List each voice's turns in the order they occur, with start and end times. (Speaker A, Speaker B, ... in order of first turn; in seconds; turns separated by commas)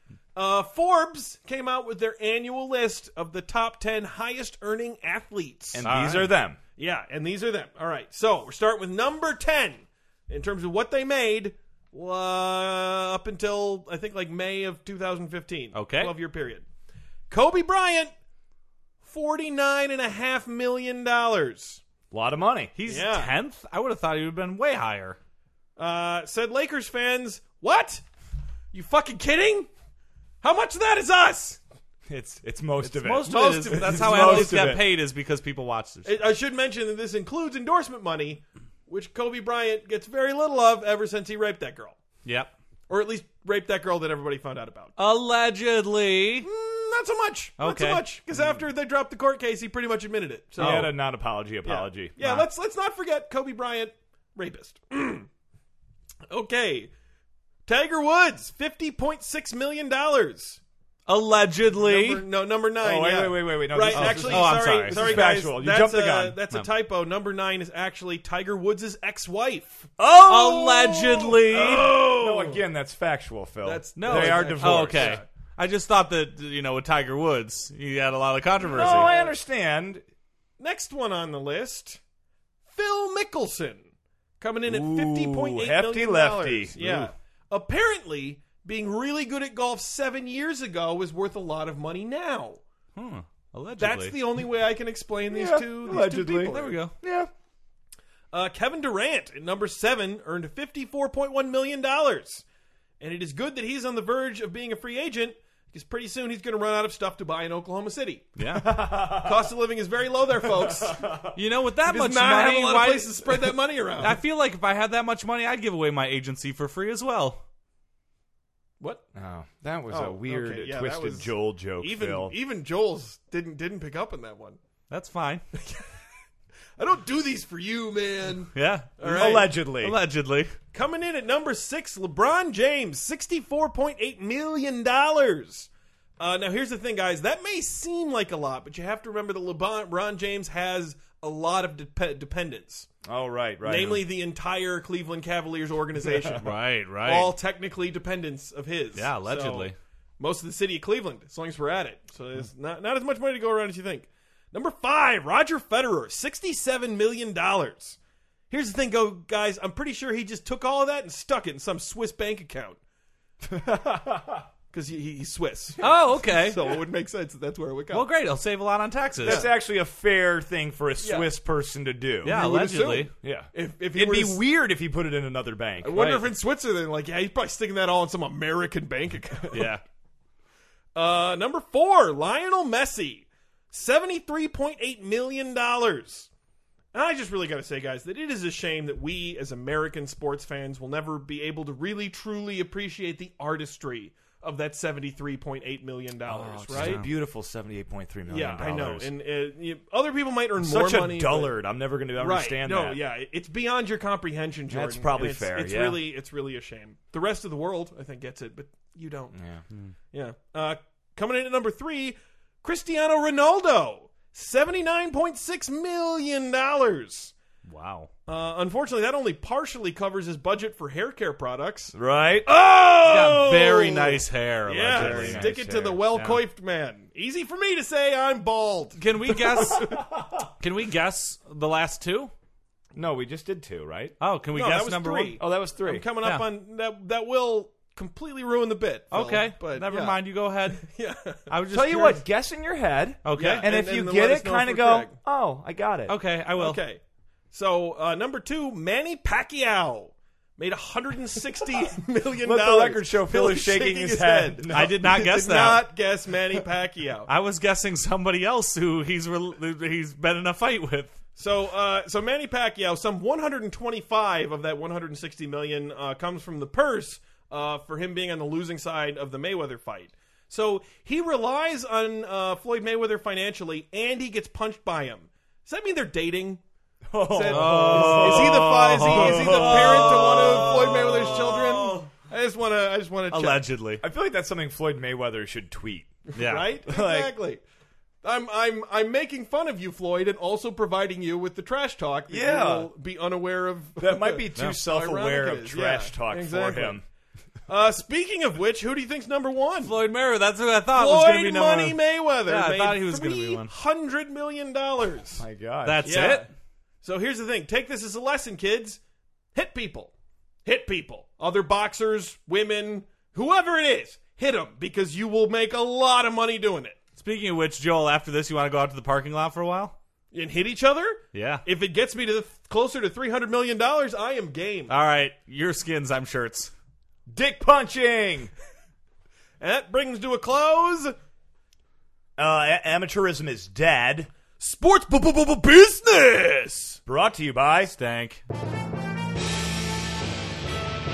Speaker A: 0.3-5.9, Speaker B: 5.7-6.6, Speaker C: 5.8-6.3, Speaker A: 6.8-16.6, Speaker C: 15.7-16.1, Speaker A: 17.3-18.1, Speaker A: 19.0-21.8, Speaker B: 22.1-22.7, Speaker C: 22.8-25.2, Speaker A: 22.9-23.3, Speaker A: 25.8-28.0, Speaker A: 28.7-29.7, Speaker A: 30.4-31.6, Speaker B: 32.1-34.9, Speaker C: 32.8-36.2, Speaker A: 33.2-34.7, Speaker A: 36.0-42.0, Speaker C: 42.2-42.5, Speaker A: 42.9-44.9, Speaker C: 45.0-46.5, Speaker A: 46.4-50.9, Speaker C: 47.6-48.0, Speaker B: 50.6-52.2, Speaker C: 50.6-50.9, Speaker A: 51.6-55.3, Speaker A: 56.3-56.9, Speaker A: 57.7-60.6, Speaker C: 61.1-62.2, Speaker A: 61.8-69.9, Speaker B: 62.8-66.4, Speaker C: 63.9-65.2, Speaker B: 70.0-75.2, Speaker C: 70.3-71.9, Speaker A: 71.5-72.6, Speaker A: 73.6-75.2, Speaker C: 74.0-79.1, Speaker A: 78.6-79.3, Speaker B: 78.8-80.0, Speaker A: 80.6-82.0, Speaker A: 82.7-83.8, Speaker A: 84.4-92.6, Speaker B: 84.7-87.1, Speaker C: 93.0-94.2, Speaker A: 93.8-96.8, Speaker B: 95.3-97.3, Speaker C: 96.5-96.9, Speaker A: 98.3-102.4, Speaker A: 103.0-108.3, Speaker C: 108.4-108.7, Speaker B: 108.5-109.5, Speaker A: 109.2-111.1, Speaker B: 110.4-111.4, Speaker C: 111.3-113.5, Speaker A: 111.9-114.2, Speaker C: 114.0-117.4, Speaker B: 119.1-122.3, Speaker A: 119.9-124.6, Speaker C: 124.9-125.4, Speaker A: 125.5-126.0, Speaker A: 126.8-129.5, Speaker C: 128.5-130.6, Speaker B: 129.0-130.0, Speaker A: 130.7-142.9, Speaker B: 143.0-144.1, Speaker A: 143.6-158.0, Speaker C: 146.4-147.3, Speaker C: 149.0-149.8, Speaker A: 158.5-162.8, Speaker B: 163.4-164.5, Speaker A: 164.7-168.1, Speaker C: 165.8-166.7, Speaker C: 167.9-169.5, Speaker A: 169.2-169.5, Speaker B: 169.2-172.4, Speaker A: 171.0-171.3, Speaker C: 172.2-173.1, Speaker A: 172.3-174.4, Speaker B: 173.2-176.0, Speaker A: 175.8-179.7, Speaker C: 175.9-176.2, Speaker C: 179.5-179.8, Speaker A: 180.9-186.3, Speaker A: 186.9-197.0, Speaker B: 196.3-199.1, Speaker C: 196.7-197.1, Speaker A: 198.3-201.5, Speaker B: 200.6-203.0, Speaker A: 202.2-209.3, Speaker B: 204.7-206.0, Speaker B: 209.3-209.6, Speaker A: 210.1-217.3, Speaker C: 217.7-218.1, Speaker A: 218.3-230.0, Speaker B: 221.9-222.5, Speaker C: 223.0-225.5, Speaker B: 224.9-226.0, Speaker C: 226.1-226.4, Speaker C: 229.0-230.0, Speaker B: 229.5-230.5, Speaker C: 230.6-232.3, Speaker B: 232.9-234.2, Speaker C: 234.2-235.4, Speaker A: 234.5-241.5, Speaker B: 235.4-236.1, Speaker C: 239.1-240.8, Speaker C: 241.5-242.2, Speaker B: 241.7-246.2, Speaker C: 243.2-243.7, Speaker A: 243.3-245.2, Speaker C: 246.1-246.8, Speaker A: 246.6-247.0, Speaker A: 247.5-257.3, Speaker B: 252.4-255.0, Speaker C: 254.7-255.9, Speaker C: 257.3-261.2, Speaker A: 261.4-276.6, Speaker B: 277.1-280.7, Speaker A: 277.2-283.7, Speaker C: 277.5-282.1, Speaker C: 283.3-284.0, Speaker B: 284.0-286.2, Speaker A: 286.3-287.6, Speaker C: 286.4-286.7, Speaker B: 286.9-287.3, Speaker A: 288.2-297.0, Speaker B: 292.3-292.9, Speaker B: 294.0-297.0, Speaker A: 297.7-299.9, Speaker C: 299.8-303.7, Speaker A: 300.9-305.4, Speaker B: 305.4-306.4, Speaker C: 305.9-306.5, Speaker A: 306.0-306.5, Speaker A: 307.0-309.0, Speaker A: 309.6-310.1, Speaker A: 310.6-317.0, Speaker C: 317.2-319.9, Speaker A: 320.3-324.9, Speaker C: 321.3-321.6, Speaker C: 324.9-326.7, Speaker B: 327.3-328.5, Speaker A: 329.6-331.1, Speaker B: 332.4-334.3, Speaker A: 334.6-337.0, Speaker B: 337.1-337.9, Speaker C: 337.9-338.4